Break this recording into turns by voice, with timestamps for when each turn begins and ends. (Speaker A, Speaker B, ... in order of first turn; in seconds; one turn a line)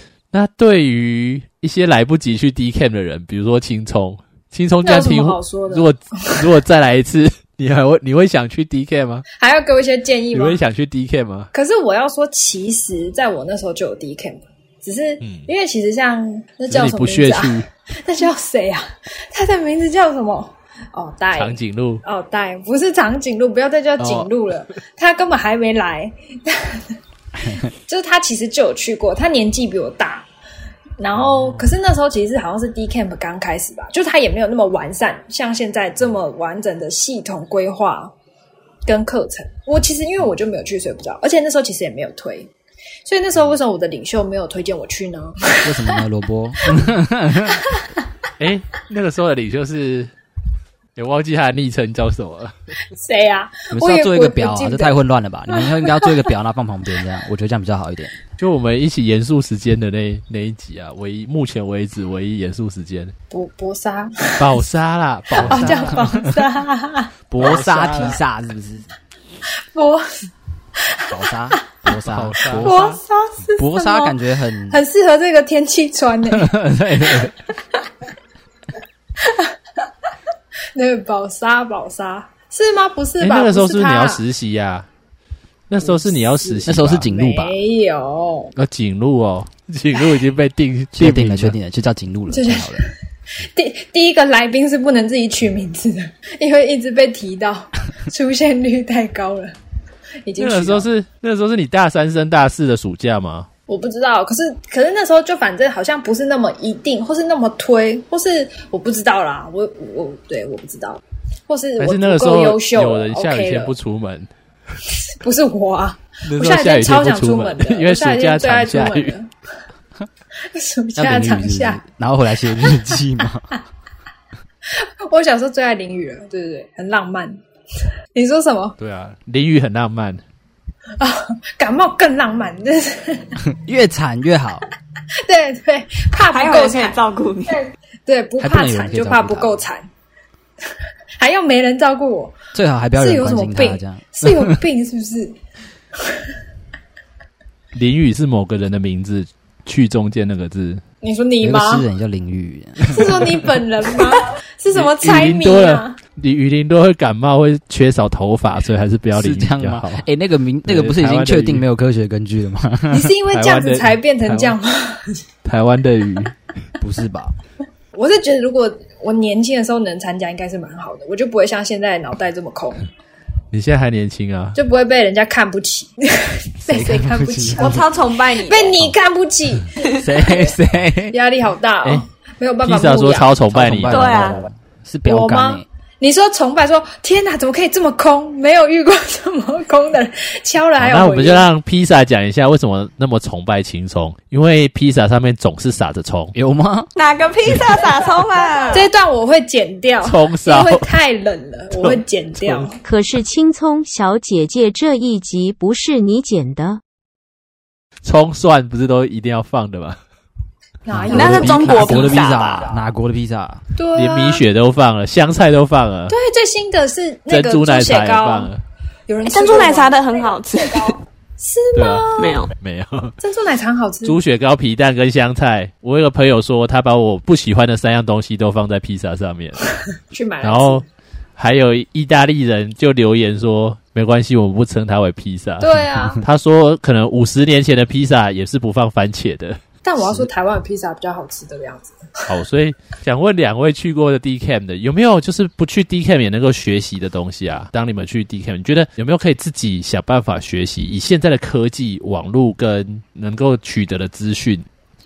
Speaker A: 0.3-9.2
Speaker B: 4.8-6.5
Speaker B: 9.4-10.6
Speaker A: 10.3-11.5
Speaker B: 11.5-27.0
Speaker A: 15.2-15.5
Speaker A: 16.7-17.7
Speaker A: 21.4-22.0
Speaker A: 24.0-24.3
Speaker B: 27.6-30.3
Speaker B: 31.0-38.1
Speaker A: 31.3-31.6
Speaker B: 38.9-42.5
Speaker B: 43.1-46.0
Speaker C: 45.6-47.6
Speaker B: 47.4-47.8
Speaker A: 48.4-50.1
Speaker A: 51.0-52.5
Speaker B: 52.9-55.0
Speaker C: 53.7-58.1
Speaker B: 55.6-56.1
Speaker A: 58.4-63.1
Speaker B: 63.3-64.6
Speaker A: 64.4-66.1
Speaker B: 65.3-67.1
Speaker C: 65.4-66.3
Speaker C: 67.3-68.9
Speaker A: 67.4-68.2
Speaker B: 69.7-71.5
Speaker C: 71.1-72.9
Speaker A: 72.0-73.0
Speaker B: 72.6-74.2
Speaker C: 73.6-74.8
Speaker B: 74.7-76.5
Speaker C: 76.3-77.3
Speaker B: 77.1-77.3
Speaker B: 79.2-79.5
Speaker B: 80.8-84.2
Speaker A: 83.2-84.9
Speaker A: 85.7-87.1
Speaker B: 85.8-88.5
Speaker C: 86.7-87.6
Speaker A: 88.6-91.6
Speaker C: 91.0-92.9
Speaker B: 92.3-99.5
Speaker B: 100.2-100.9
Speaker A: 100.4-103.5
Speaker B: 103.7-113.7
Speaker A: 111.8-114.3
Speaker B: 115.2-119.3
Speaker A: 116.2-119.1
Speaker B: 120.5-121.8
Speaker C: 121.0-123.5
Speaker B: 122.5-123.0
Speaker B: 124.7-127.4
Speaker B: 128.1-128.8
Speaker A: 128.8-130.2
Speaker B: 131.0-133.4
Speaker C: 133.5-134.7
Speaker B: 135.2-137.0
Speaker D: 136.3-137.6
Speaker B: 138.1-139.9
Speaker C: 138.4-139.6
Speaker B: 140.7-142.4
Speaker C: 142.5-144.6
Speaker B: 143.0-145.4
Speaker B: 146.0-146.3
Speaker A: 147.7-150.8
Speaker B: 151.0-151.8
Speaker C: 151.4-153.6
Speaker B: 152.8-156.0
Speaker A: 154.7-160.0
Speaker C: 159.1-163.2
Speaker A: 160.7-161.7
Speaker B: 162.9-165.2
Speaker A: 163.3-164.6
Speaker A: 165.4-166.3
Speaker C: 166.8-167.3
Speaker B: 167.9-172.9
Speaker A: 173.5-174.6
Speaker B: 174.6-180.6
Speaker C: 176.7-177.8
Speaker D: 177.6-178.8
Speaker C: 179.9-181.2
Speaker B: 181.1-183.3
Speaker A: 182.6-184.2
Speaker C: 183.5-185.7
Speaker D: 183.9-184.4
Speaker B: 185.1-191.5
Speaker A: 190.8-196.3
Speaker C: 196.3-196.9
Speaker D: 196.9-198.9
Speaker B: 198.7-202.8
Speaker A: 200.0-200.9
Speaker A: 201.7-202.7
Speaker E: 202.8-206.8
Speaker A: 208.0-210.0
Speaker B: 210.9-212.1
Speaker C: 210.9-213.6
Speaker D: 211.1-212.7
Speaker A: 211.1-212.1
Speaker B: 213.8-214.4
Speaker A: 213.9-216.2
Speaker B: 216.1-218.5
Speaker A: 217.3-218.6
Speaker B: 219.1-222.4
Speaker D: 219.2-221.0
Speaker A: 221.8-223.2
Speaker D: 222.2-222.5
Speaker B: 223.2-224.2
Speaker A: 224.0-229.6
Speaker B: 230.1-230.8
Speaker A: 230.4-230.8
Speaker A: 231.4-239.6
Speaker B: 235.6-236.2
Speaker B: 239.8-242.3
Speaker A: 242.3-254.7